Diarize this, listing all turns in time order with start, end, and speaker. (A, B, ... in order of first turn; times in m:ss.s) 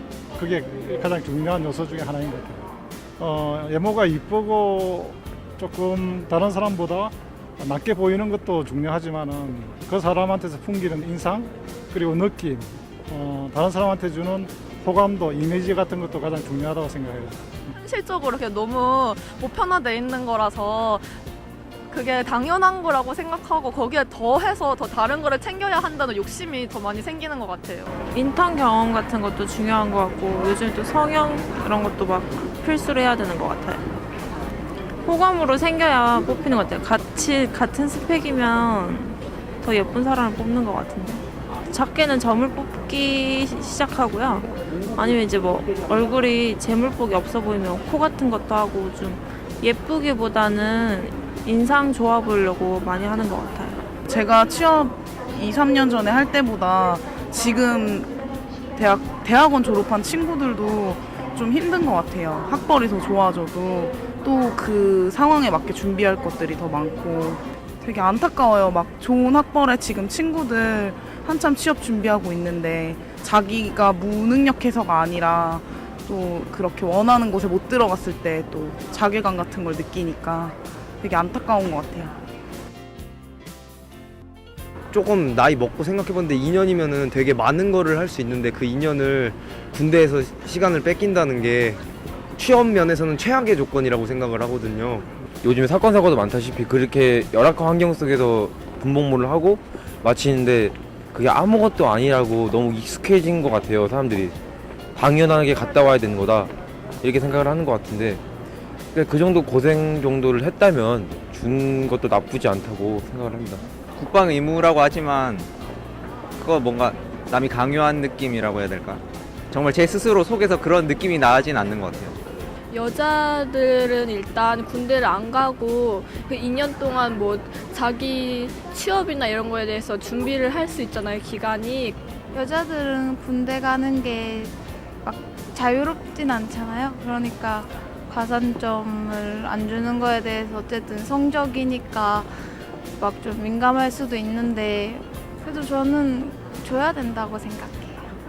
0:00.4-0:02.6 A
0:03.2-0:17.6 A
0:17.7-0:21.1 B
0:21.9-0:28.0 B
0:28.1-0:33.8 C
0:35.0-0:53.9 C
0:54.0-0:58.1 D
0:58.8-1:22.2 D
1:24.9-1:31.8 E
1:32.4-1:35.1 E
1:35.4-1:44.3 F
1:45.0-1:46.5 F
1:47.8-1:48.2 F
1:48.9-1:53.6 F
1:54.0-1:55.5 G
1:56.4-2:02.2 G
2:02.7-2:12.0 H
2:12.3-2:22.3 I
2:23.0-2:28.1 I